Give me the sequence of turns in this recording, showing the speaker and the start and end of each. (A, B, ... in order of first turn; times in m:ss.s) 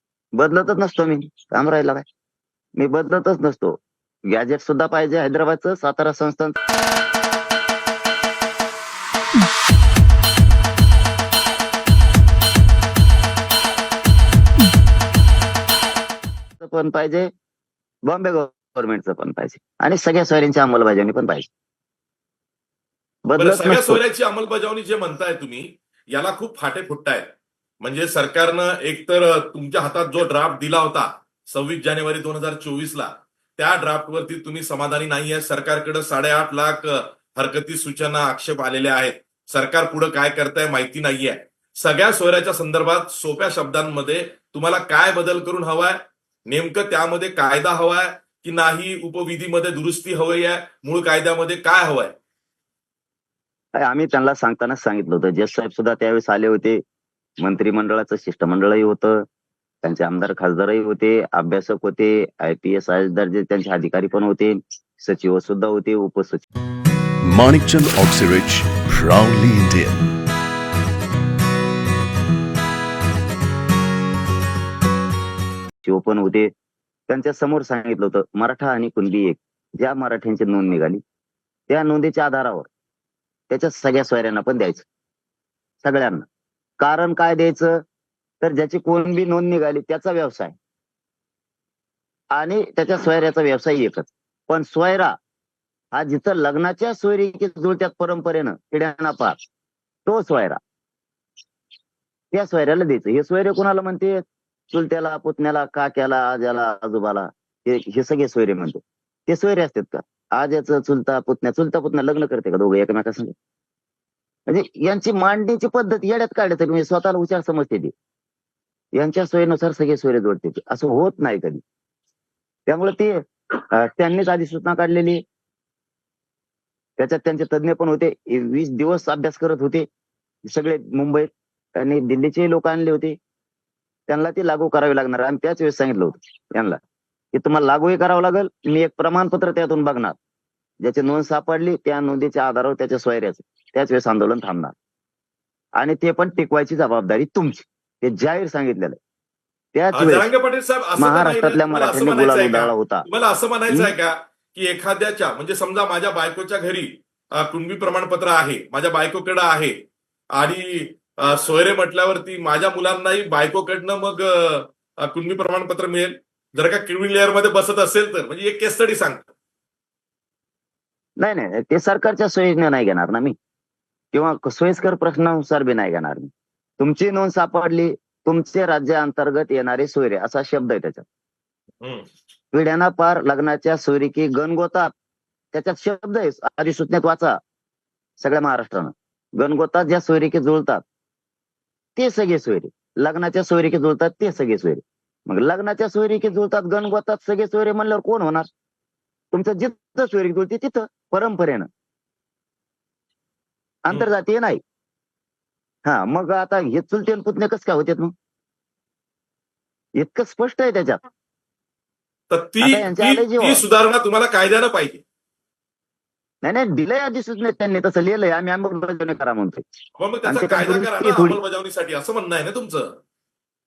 0:00.4-0:02.0 A
0:02.8-0:06.6 A
0:16.6-0:17.3 A
0:18.1-0:21.5 A
0:23.2-0:24.0 A
0:23.4-0:27.3 B
0:27.8-0:52.1 B
0:53.8-0:56.8 A
0:57.4-0:59.2 A
0:59.8-1:06.4 A
1:07.2-1:10.1 C
1:15.8-1:16.5 A
1:17.1-1:21.0 A
1:21.7-1:22.7 A
1:23.5-1:24.9 A
1:25.8-1:26.3 A
1:26.8-1:27.8 A
1:28.4-1:30.6 A
1:32.3-1:35.2 A
1:35.9-1:39.4 A
1:40.0-1:40.6 A
1:42.3-1:53.3 A
1:54.5-1:57.9 A
1:59.0-2:01.6 A
2:02.7-2:05.2 A
2:07.0-2:09.9 A
2:10.5-2:13.2 A
2:14.1-2:16.8 A
2:17.3-2:20.2 A
2:20.8-2:24.7 A
2:25.8-2:29.0 A
2:29.7-2:30.3 A
2:29.9-2:39.8 B
2:31.0-2:33.1 A
2:40.3-2:49.3 B
2:51.2-2:53.4 A
2:54.1-3:01.0 A
3:01.8-3:02.1 B
3:02.5-3:04.9 A
3:05.5-3:07.4 A
3:08.2-3:10.8 A
3:12.0-3:18.5 A
3:19.3-3:21.7 A
3:23.8-3:24.6 A
3:25.8-3:28.1 A
3:30.0-3:31.0 A
3:32.3-3:35.0 B
3:32.6-3:33.6 A
3:36.4-3:39.6 A
3:40.0-3:43.0 B
3:40.3-3:41.4 A